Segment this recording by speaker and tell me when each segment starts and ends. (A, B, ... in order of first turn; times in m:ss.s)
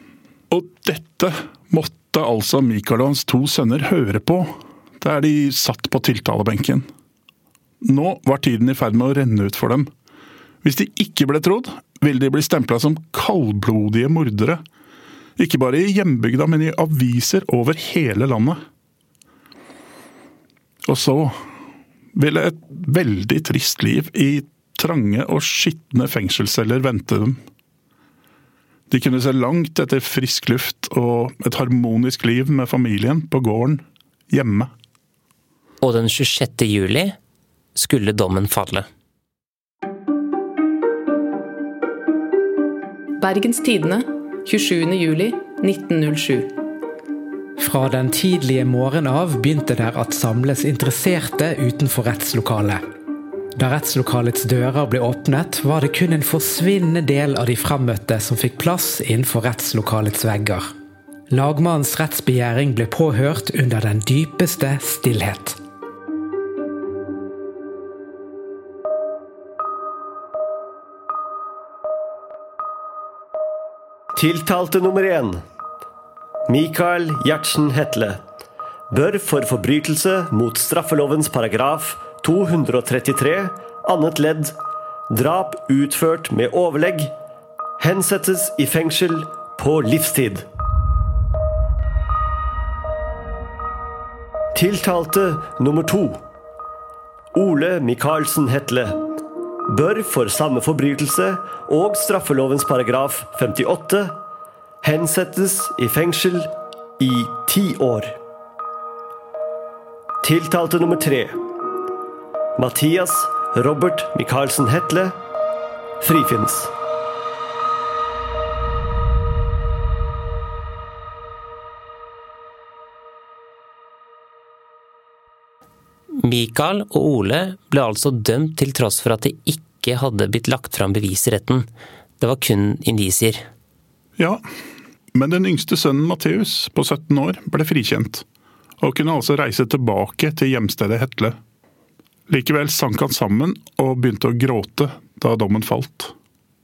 0:00.5-0:06.9 A
0:07.8-0:09.9 A
0:10.6-0:14.6 A
0:15.4-0:18.6 A
0:20.8-0:21.4 A
0:22.1-0:27.4 A
0:28.9-0:34.7 A
0:35.8-0:37.2 B
0:37.8-0:38.9 B
0:43.2-0:46.5 C
0:47.6-0:52.8 D
0:53.6-1:00.7 D
1:01.3-1:05.6 D
1:14.2-1:15.4 E
1:16.5-1:18.2 E
1:18.9-1:24.6 E
1:25.1-1:27.1 E
1:27.8-1:30.4 E
1:34.5-1:36.2 E
1:37.3-1:39.0 E
1:39.7-1:44.2 E
1:44.8-1:48.1 E
1:50.2-1:51.4 E
1:52.6-1:55.2 E
1:56.0-1:56.7 E
2:06.2-2:11.7 B
2:12.2-2:13.4 B
2:14.2-2:14.4 A
2:15.1-2:18.2 A
2:18.8-2:21.4 A
2:22.3-2:26.1 A